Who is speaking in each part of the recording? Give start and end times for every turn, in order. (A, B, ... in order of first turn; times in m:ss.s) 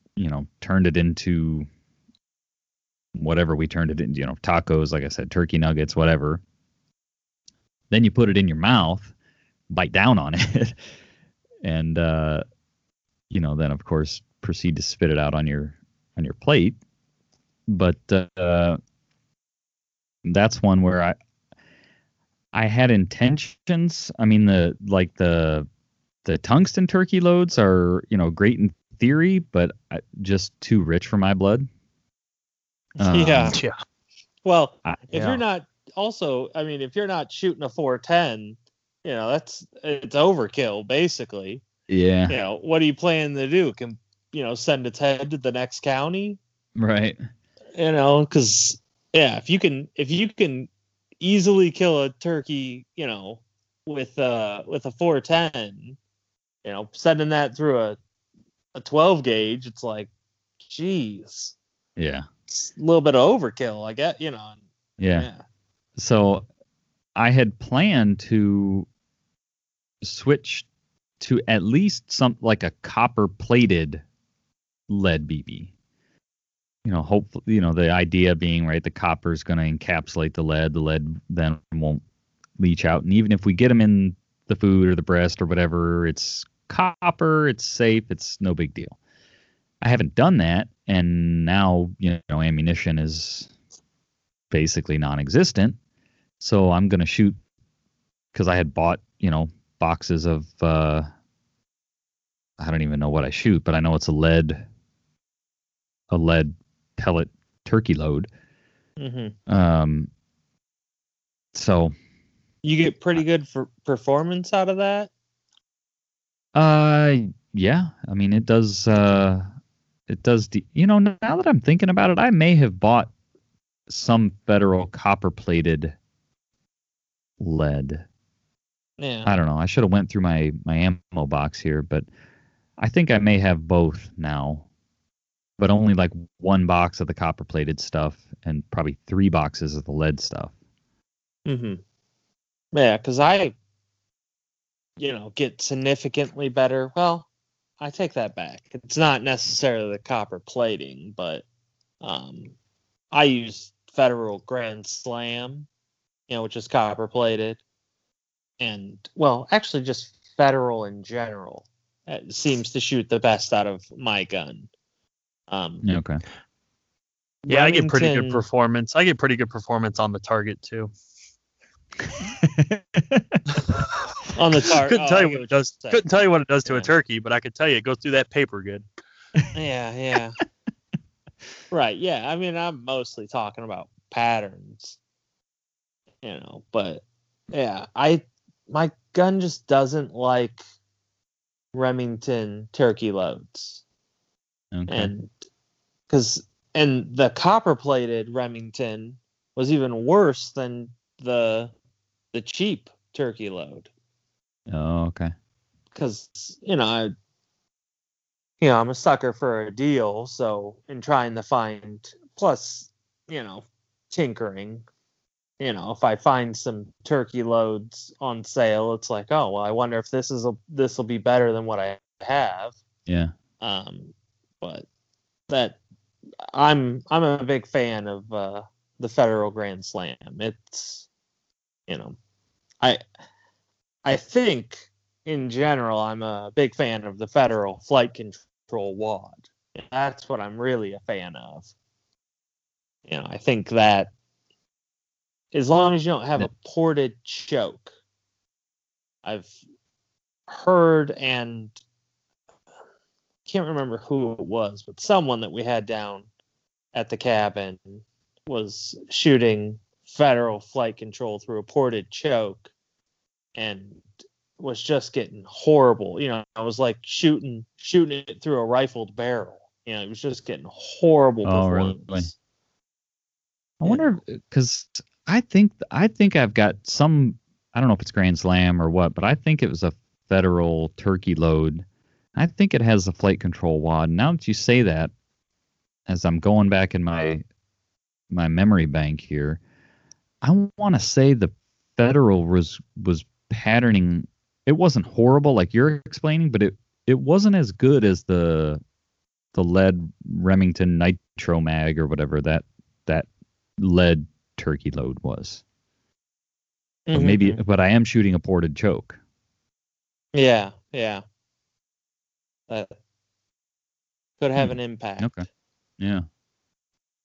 0:00.2-0:01.7 A
0:03.2-0:06.4 A
0:07.9-0:09.1 A
0:09.7-0:10.8 A
0:11.6-0:12.4 A
0:13.3-0:16.8 A
0:17.7-0:18.8 A
0:20.2-0:21.2 A
0:22.5-0:25.7 A
0:26.2-0:31.7 A
0:33.0-0:33.7 B
0:33.0-0:33.6 A
0:33.1-0:33.6 C
0:34.4-0:41.6 C
0:34.8-0:35.3 A
0:41.9-0:42.4 A
0:42.3-0:46.4 C
0:46.8-0:47.2 A
0:47.8-0:50.7 C
0:51.2-0:56.0 C
0:56.6-0:58.0 C
0:58.8-1:00.1 C
1:00.6-1:01.6 C
1:02.0-1:02.3 A
1:02.5-1:04.6 C
1:05.0-1:05.3 A
1:05.1-1:05.4 C
1:06.0-1:06.5 A
1:07.2-1:08.9 A
1:10.0-1:10.7 A
1:11.2-1:14.0 A
1:14.9-1:15.7 A
1:16.8-1:22.0 A
1:22.6-1:29.0 A
1:29.8-1:33.5 A
1:34.5-1:35.8 A
1:36.4-1:37.4 A
1:38.3-1:41.1 A
1:42.6-1:44.7 A
1:46.1-1:48.3 A
1:49.0-1:49.4 C
1:49.5-1:50.1 A
1:51.5-1:51.9 A
1:52.6-1:55.1 C
1:56.6-1:59.5 A
2:00.1-2:03.1 A
2:03.9-2:06.0 A
2:07.4-2:08.0 A
2:09.0-2:09.3 C
2:09.3-2:12.1 A
2:12.8-2:14.7 A
2:15.6-2:20.5 A
2:21.5-2:21.8 C
2:22.7-2:23.6 C
2:25.0-2:27.3 C
2:27.8-2:31.4 C
2:32.0-2:32.6 C
2:33.1-2:35.7 C
2:36.3-2:37.6 C
2:38.6-2:44.7 C
2:45.5-2:45.8 C
2:45.8-2:46.2 A
2:47.5-2:48.4 C
2:47.5-2:50.9 B
2:52.4-2:53.4 A
2:54.4-2:56.1 C
2:54.7-2:58.8 B
2:56.7-2:56.9 C
2:59.5-3:00.4 C
3:01.7-3:05.0 C
3:06.2-3:10.6 C
3:11.7-3:13.8 C
3:14.7-3:15.1 A
3:14.9-3:15.3 C
3:16.1-3:21.7 C
3:22.3-3:23.9 C
3:24.7-3:25.3 A
3:25.9-3:27.1 C
3:28.6-3:34.8 C
3:35.6-3:42.8 C
3:43.6-3:44.9 C
3:45.5-3:45.8 C
3:46.5-3:51.1 C
3:51.9-3:52.2 C
3:54.0-4:01.7 C
4:03.1-4:04.1 C
4:05.5-4:07.9 C
4:09.2-4:09.6 C
4:10.5-4:11.7 C
4:13.5-4:16.3 C
4:16.9-4:22.7 C
4:23.6-4:24.0 C
4:24.6-4:32.3 C
4:31.4-4:32.3 A
4:33.8-4:45.1 A
4:33.8-4:34.2 C
4:46.1-4:47.4 A
4:48.3-4:49.6 A
4:50.4-4:58.8 A
4:59.5-5:03.3 A
5:03.8-5:05.6 A
5:07.1-5:07.6 C
5:07.1-5:09.2 A
5:10.3-5:11.2 C
5:14.4-5:15.3 C
5:14.6-5:15.4 A
5:16.0-5:16.2 A